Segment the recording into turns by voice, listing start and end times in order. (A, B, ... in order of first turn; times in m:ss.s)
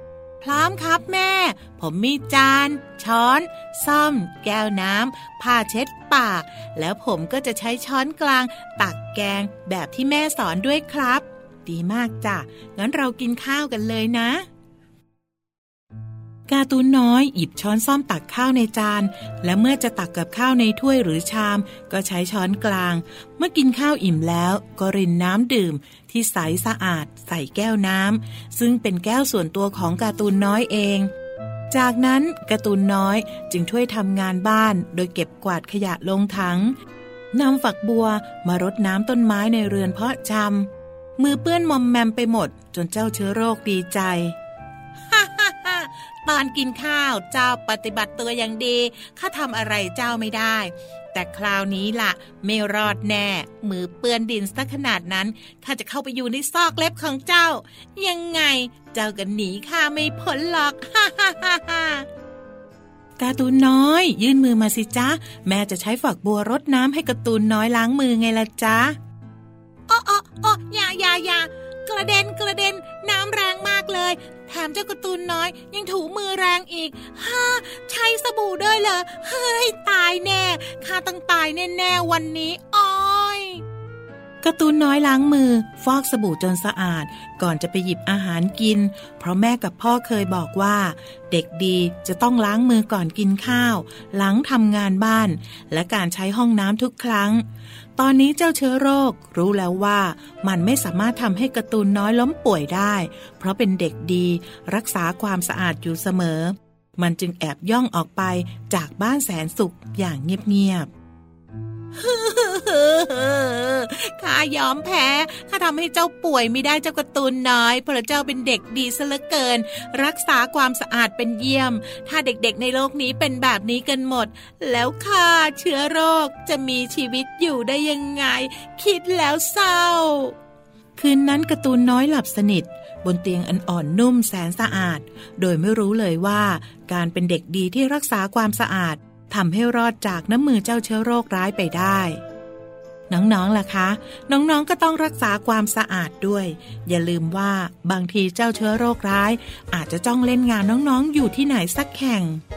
0:00.4-0:14.4 A
0:16.5-0:31.1 A
0:31.7-0:36.8 A
0:37.3-0:44.4 A
0:45.1-1:02.0 A
1:03.2-1:09.0 A
1:09.9-1:23.6 A
1:24.4-1:37.4 A
1:38.0-1:50.9 A
1:52.0-2:10.3 A
2:11.0-2:22.2 A
2:23.1-2:32.4 A